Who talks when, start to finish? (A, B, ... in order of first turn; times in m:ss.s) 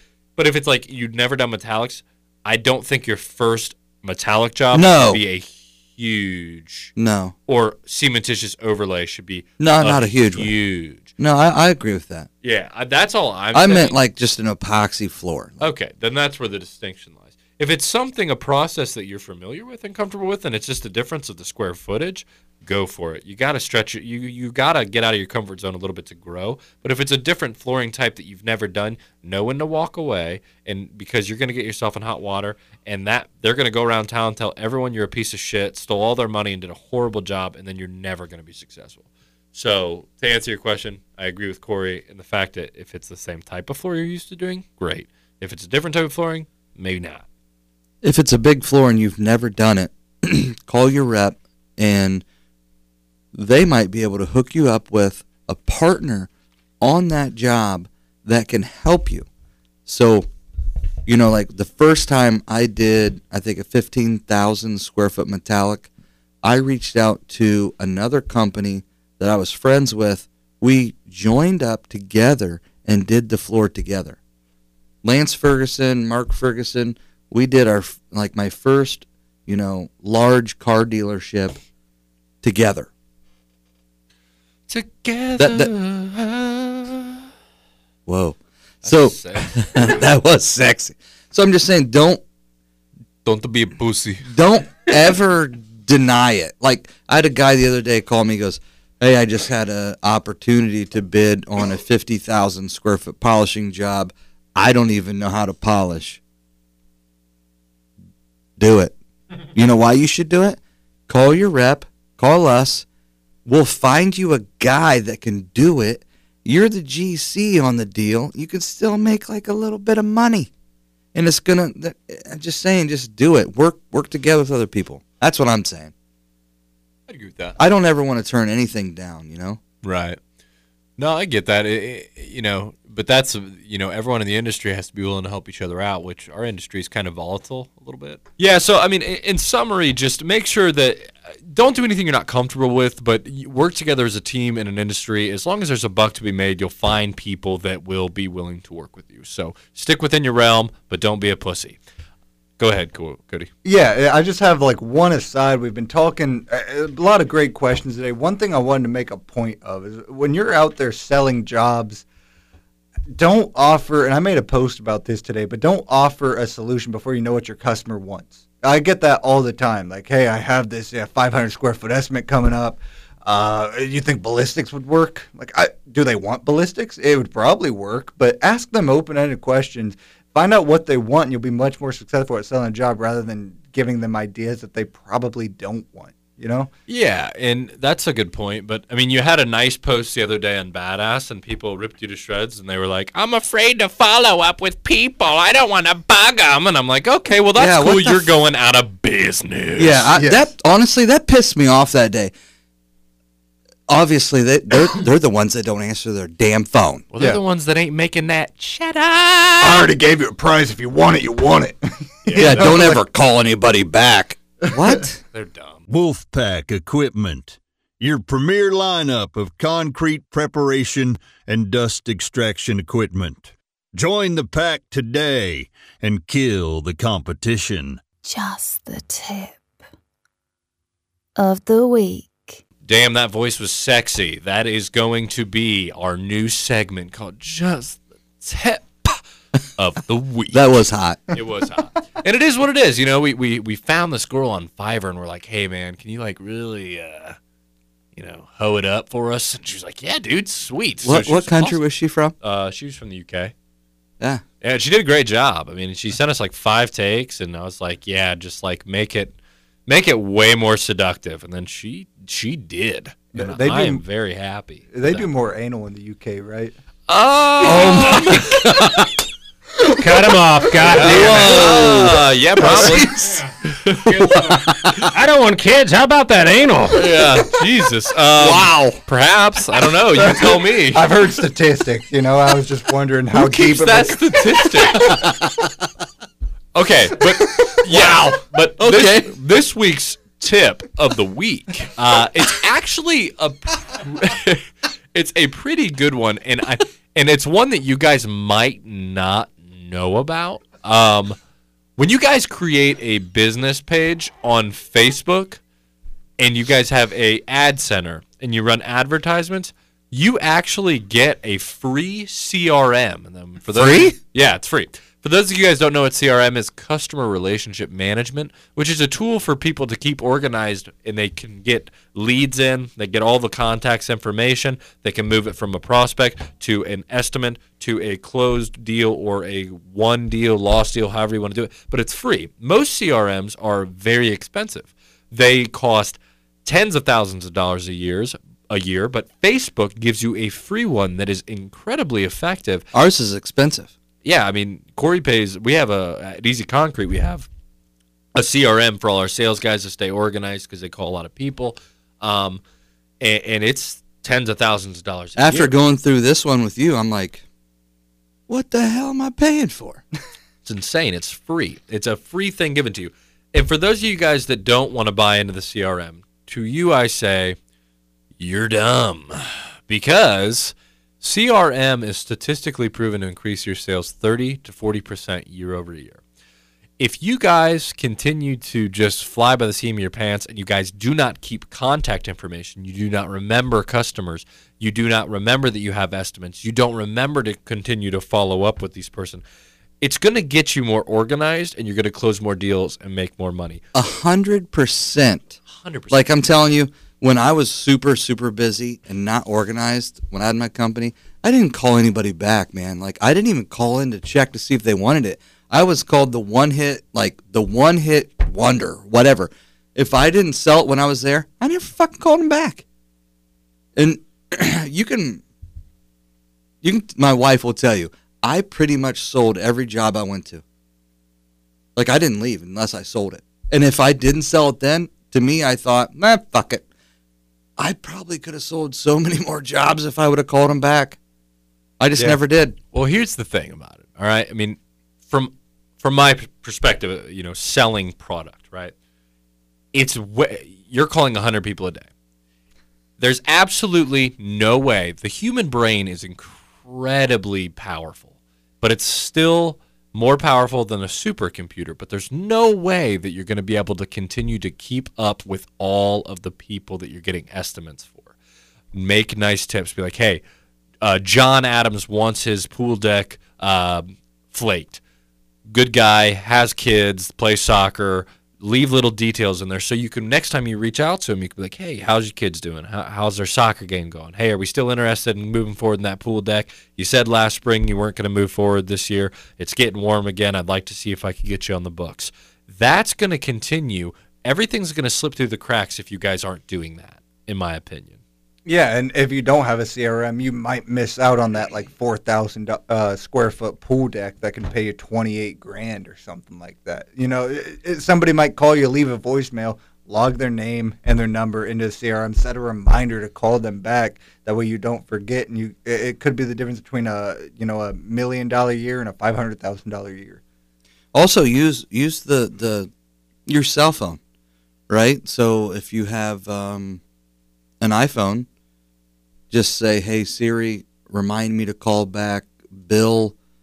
0:00.4-0:06.9 A
0:04.7-0:05.2 B
0:07.0-0:07.3 B
0:07.5-0:11.1 A
0:09.6-0:10.5 B
0:11.2-0:12.3 B
0:12.4-0:14.0 A
0:13.5-0:15.6 B
0:15.6-0:47.2 A
0:48.0-0:52.2 B
0:53.3-0:56.3 B
0:56.8-0:59.3 B
0:59.8-1:00.3 B
1:01.0-1:05.9 B
1:06.4-1:14.2 B
1:15.0-1:21.6 B
1:22.4-1:22.9 B
1:24.7-1:27.1 A
1:25.4-1:25.7 B
1:28.1-1:32.2 B
1:28.8-1:30.0 A
1:33.2-1:34.3 A
1:34.2-1:46.2 B
1:48.6-1:48.9 B
1:49.5-1:52.8 B
1:53.4-2:00.5 B
2:01.1-2:05.9 B
2:07.1-2:07.6 A
2:07.6-2:09.6 B
2:09.8-2:10.2 A
2:11.0-2:31.8 A
2:32.6-2:33.5 A
2:33.6-2:42.0 C
2:43.1-3:06.7 C
3:06.9-3:20.1 A
3:17.6-3:18.3 B
3:19.8-3:22.3 B
3:20.2-3:20.4 C
3:23.9-3:27.0 B
3:27.1-3:29.9 A
3:29.6-3:33.0 C
3:32.2-3:32.7 A
3:32.4-3:35.2 B
3:35.3-3:35.8 A
3:35.9-3:48.0 D
3:48.2-3:49.6 E
3:51.4-3:52.6 E
3:52.8-3:59.2 A
3:59.8-4:00.6 A
4:00.5-4:01.4 B
4:01.3-4:07.4 A
4:08.2-4:11.8 A
4:11.0-4:12.3 B
4:12.4-4:13.5 A
4:14.6-4:19.3 A
4:19.9-4:25.3 A
4:23.3-4:24.0 C
4:24.9-4:26.7 C
4:27.1-4:28.6 A
4:27.6-4:29.1 B
4:29.8-4:31.6 F
4:30.8-4:33.5 B
4:30.9-4:33.1 A
4:33.1-4:37.0 F
4:33.6-4:34.0 A
4:34.3-4:35.1 B
4:36.9-4:41.1 A
4:38.4-4:39.0 B
4:40.2-4:44.4 C
4:43.3-4:45.3 A
4:44.9-4:45.7 B
4:46.7-5:01.4 A
4:47.7-4:49.3 B
5:02.0-5:05.6 A
5:06.4-5:42.8 A
5:13.7-5:14.2 B
5:42.9-5:43.9 B
5:44.2-5:47.5 A
5:48.3-5:52.6 A
5:53.2-5:55.7 A
5:55.4-5:57.4 B
5:58.5-6:00.0 B
6:00.6-6:07.6 A
6:08.4-6:09.4 A
6:09.9-6:16.2 A
6:17.0-6:29.4 A
6:30.0-6:33.8 A
6:33.9-6:35.6 B
6:35.6-6:36.4 A
6:36.1-6:52.8 B
6:54.0-6:55.4 B
6:56.8-7:00.6 B
7:02.0-7:06.8 B
7:07.8-7:11.2 B
7:12.0-7:12.8 B
7:12.9-7:14.8 A
7:15.3-7:18.9 A
7:19.9-7:22.1 A
7:23.2-7:28.3 A
7:28.8-7:38.3 A
7:38.9-7:40.4 A
7:41.0-7:45.0 A
7:45.7-8:08.2 A
8:08.6-8:30.4 C
8:31.1-8:32.9 B
8:33.4-8:34.2 B
8:34.9-8:37.0 B
8:37.8-8:38.5 B
8:39.5-8:43.3 B